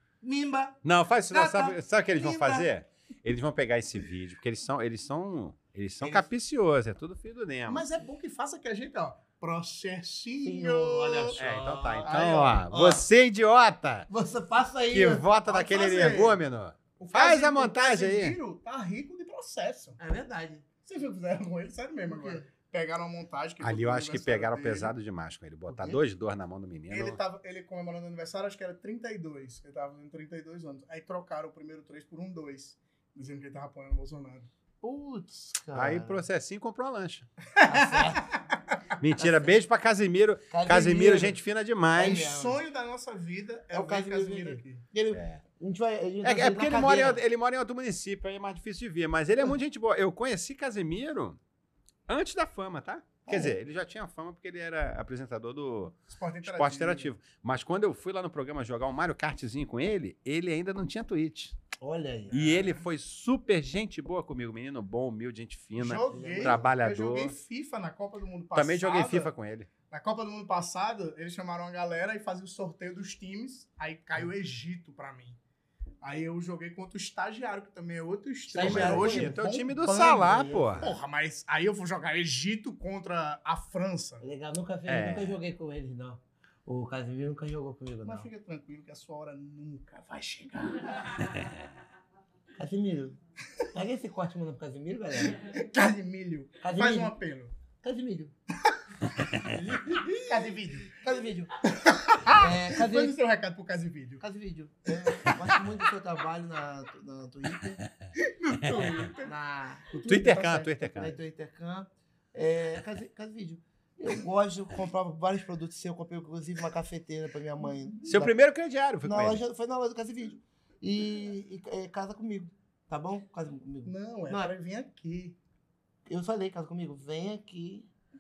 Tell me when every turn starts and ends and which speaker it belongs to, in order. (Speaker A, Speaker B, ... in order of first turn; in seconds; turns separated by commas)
Speaker A: 0.2-0.8, Speaker B: 0.8-7.9, Speaker A: 1.3-2.7, Speaker A: 6.0-6.3, Speaker C: 7.7-11.4, Speaker A: 10.4-13.1, Speaker B: 11.4-14.1, Speaker C: 12.0-12.6, Speaker A: 14.1-15.3, Speaker B: 14.9-18.4, Speaker C: 15.4-16.4, Speaker C: 17.0-20.0, Speaker A: 20.0-20.6, Speaker C: 20.9-24.9, Speaker A: 22.1-22.5, Speaker B: 23.6-27.2, Speaker A: 25.7-26.0, Speaker C: 26.9-34.5, Speaker A: 34.8-36.2, Speaker B: 35.7-37.3, Speaker C: 37.6-38.2, Speaker A: 37.6-38.3, Speaker B: 39.0-42.2, Speaker A: 39.2-39.6, Speaker A: 40.5-41.4, Speaker A: 41.9-42.6, Speaker C: 42.0-44.8, Speaker A: 43.7-47.2, Speaker B: 45.1-45.4, Speaker B: 46.2-51.4, Speaker B: 52.1-61.6, Speaker A: 53.3-53.5, Speaker C: 56.1-57.1, Speaker A: 61.8-62.4, Speaker C: 62.3-62.8, Speaker B: 62.3-67.3, Speaker C: 65.8-69.3, Speaker A: 66.1-66.7, Speaker B: 68.5-69.7, Speaker C: 69.9-75.4, Speaker C: 76.0-84.2, Speaker A: 78.5-79.4, Speaker B: 78.6-81.0, Speaker A: 80.2-80.9, Speaker A: 84.2-88.3, Speaker B: 84.9-85.4, Speaker C: 88.0-91.2, Speaker A: 92.6-93.2, Speaker A: 93.7-95.5, Speaker C: 95.5-97.5, Speaker A: 96.6-97.2, Speaker A: 97.8-98.3, Speaker A: 99.4-101.5, Speaker C: 100.3-100.9, Speaker C: 101.7-104.2, Speaker A: 102.4-103.2, Speaker A: 104.2-107.8, Speaker C: 108.2-109.3, Speaker B: 108.7-109.0, Speaker A: 109.2-118.4, Speaker B: 110.1-111.2, Speaker C: 110.1-110.4, Speaker B: 118.1-119.4, Speaker A: 119.0-124.5, Speaker C: 123.9-125.4, Speaker A: 126.1-127.9